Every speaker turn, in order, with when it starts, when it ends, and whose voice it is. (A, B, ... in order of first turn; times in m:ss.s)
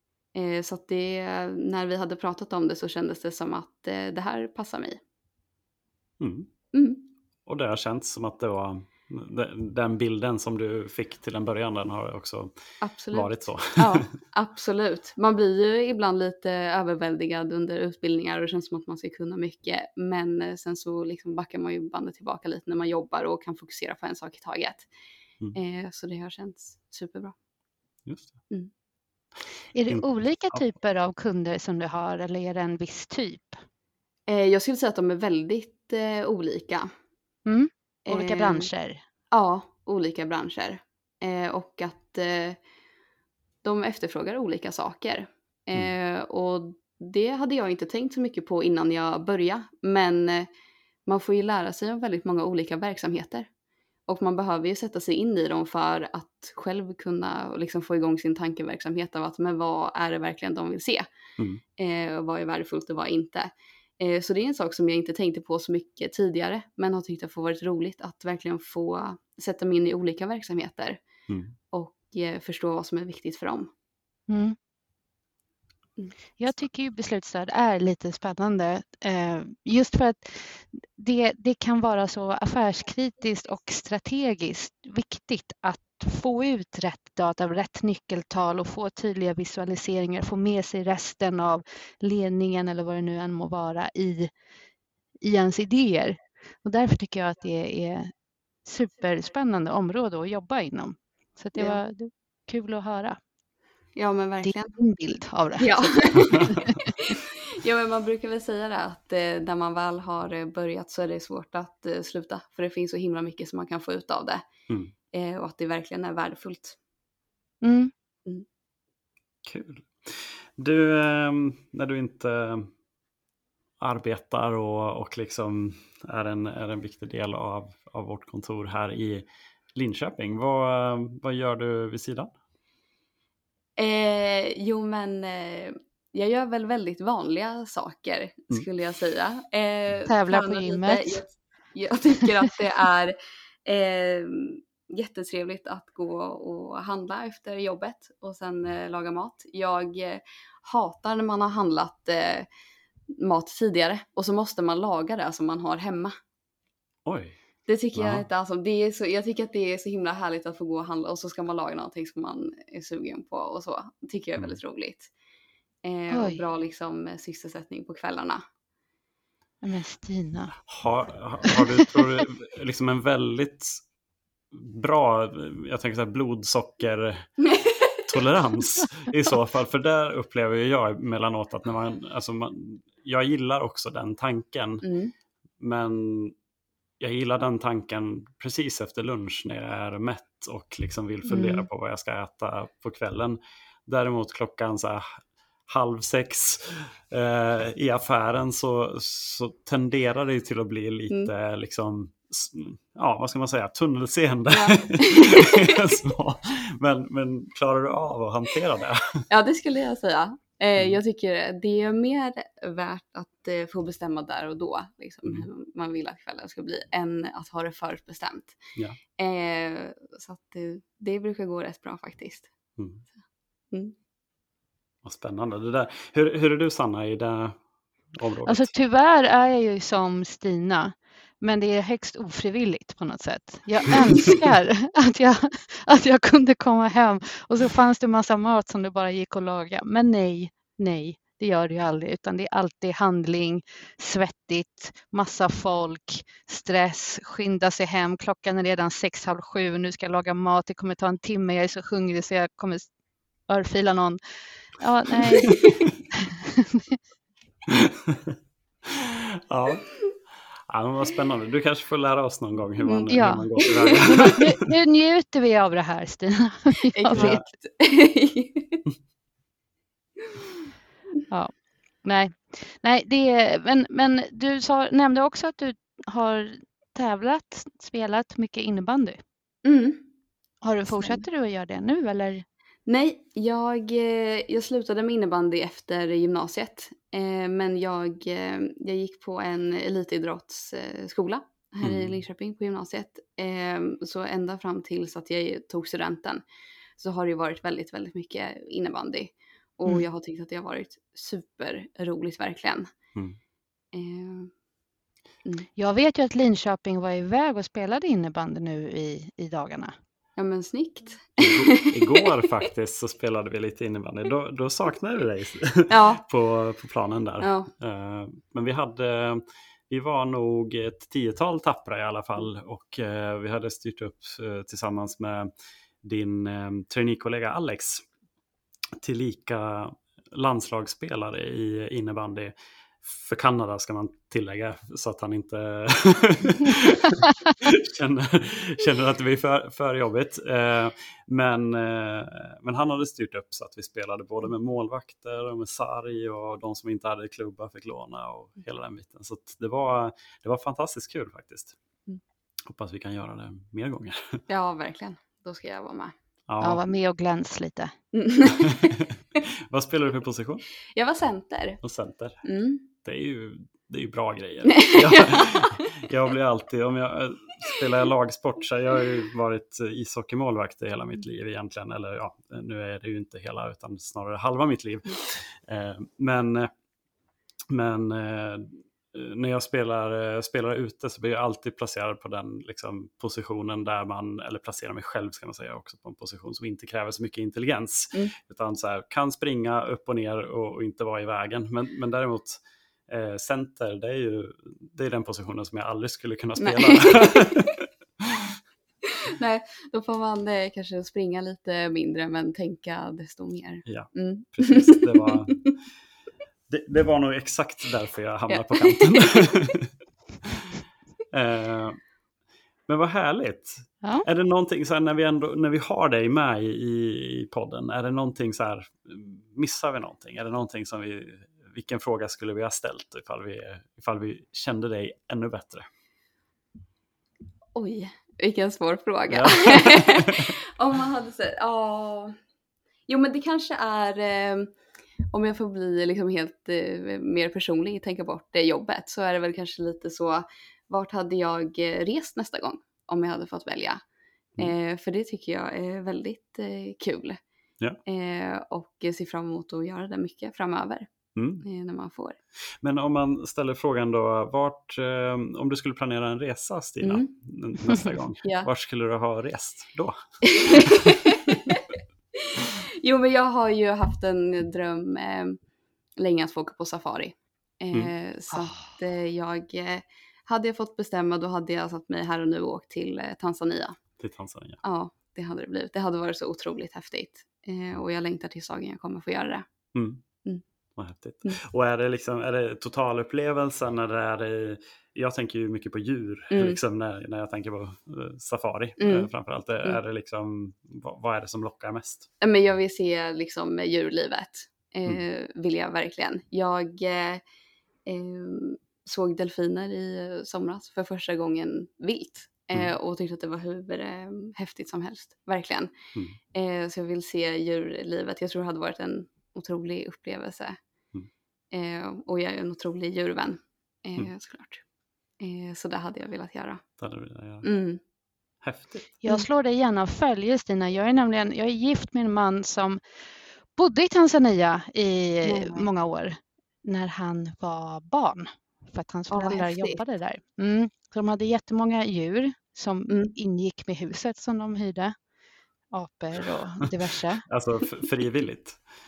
0:00.3-0:05.0 A
0:06.2-0:06.5 B
0:06.7-0:07.0 A
0:07.4-0:12.5 B
0:12.8-0:24.9 A
0:13.1-0:14.1 B
0:25.5-0:27.3 A
0:28.0-0:28.4 B
0:29.7-0:33.6 C
0:29.9-0:30.6 B
0:34.3-0:36.9 A
0:37.4-0:39.0 C
0:38.1-0:38.7 A
0:39.3-0:42.6 A
0:43.6-0:50.5 A
0:51.0-0:53.5 A
0:54.1-1:01.1 A
1:01.8-1:11.0 A
1:11.3-1:11.5 B
1:11.7-1:13.7 A
1:14.3-1:14.6 C
1:16.4-1:34.3 C
1:35.2-1:38.1 C
1:38.6-1:43.2 C
1:44.0-1:44.8 A
1:44.4-1:46.9 C
1:45.6-1:46.5 A
1:47.1-1:54.4 A
1:55.1-1:56.8 A
1:57.6-1:57.9 C
1:59.4-2:02.7 B
2:03.8-2:12.3 B
2:13.8-2:32.5 A
2:20.0-2:21.2 C
2:33.1-2:36.1 A
2:37.0-2:37.4 B
2:37.7-2:45.1 A
2:37.9-2:38.2 B
2:45.8-2:48.4 A
2:46.1-2:46.4 C
2:49.6-2:50.5 C
2:50.7-2:53.8 B
2:54.5-2:57.3 B
2:57.4-2:58.0 A
2:58.1-3:04.8 B
3:04.8-3:05.1 A
3:05.6-3:06.3 B
3:07.0-3:15.0 B
3:11.3-3:11.7 A
3:15.7-3:29.2 B
3:24.5-3:25.7 A
3:29.3-3:38.6 A
3:39.2-3:42.5 A
3:42.8-3:43.0 B
3:45.0-3:47.6 B
3:48.1-3:48.7 B
3:48.4-4:12.9 C
4:13.5-4:14.2 C
4:14.8-4:15.6 C
4:15.4-4:15.8 A
4:16.1-4:17.0 C
4:17.7-4:19.9 B
4:20.7-4:24.6 B
4:22.8-4:24.1 A
4:23.1-4:23.5 C
4:24.0-4:27.4 C
4:26.9-4:28.8 A
4:32.0-4:39.2 C
4:39.6-4:40.0 A
4:40.6-4:42.4 C
4:40.9-4:41.2 A
4:42.9-4:56.4 A
4:51.8-4:52.2 B
4:57.0-5:02.9 A
5:03.9-5:04.5 A
5:05.8-5:09.9 C
5:10.4-5:12.3 A
5:11.4-5:25.5 B
5:15.9-5:16.2 A
5:17.4-5:17.7 A
5:26.0-5:28.0 B
5:29.0-5:51.8 B
5:52.6-5:54.4 B
5:54.5-5:56.1 A
5:56.5-5:56.8 B
5:56.6-5:57.9 C
5:58.1-5:59.4 A
5:58.6-5:59.1 B
5:59.7-6:00.6 B
6:00.9-6:01.8 A
6:01.8-6:02.4 B
6:02.4-6:02.8 A
6:03.0-6:16.7 B
6:04.7-6:05.7 A
6:17.7-6:38.6 B
6:36.6-6:37.2 A
6:39.1-6:45.7 A
6:43.8-6:45.6 B
6:46.7-6:49.9 B
6:48.5-6:49.2 A
6:51.3-6:52.0 B
6:52.9-7:05.8 B
7:07.7-7:12.4 A
7:09.3-7:10.5 B
7:13.1-7:14.7 A
7:15.3-7:24.0 A
7:24.6-7:27.4 A
7:28.0-7:32.4 A
7:31.3-7:31.6 B
7:32.8-7:41.5 B
7:37.0-7:37.3 A
7:38.4-7:38.7 A
7:40.4-7:41.8 A
7:42.4-7:45.6 A
7:46.2-7:54.0 A
7:54.2-7:54.8 B
7:54.8-7:59.6 A
7:59.9-8:00.2 B
8:01.0-8:12.3 B
8:06.5-8:06.8 A
8:09.0-8:09.3 A
8:12.4-8:17.4 A
8:18.0-8:25.9 A
8:26.5-8:30.8 A
8:31.7-8:34.8 A
8:35.4-8:36.8 A
8:37.0-8:37.6 B
8:37.6-8:38.0 A
8:38.6-8:39.1 B
8:39.2-8:43.0 C
8:43.8-8:55.1 C
8:45.4-8:45.9 A
8:49.3-8:50.0 A
8:53.1-8:53.3 A
8:55.9-8:57.4 C
8:57.5-8:58.8 B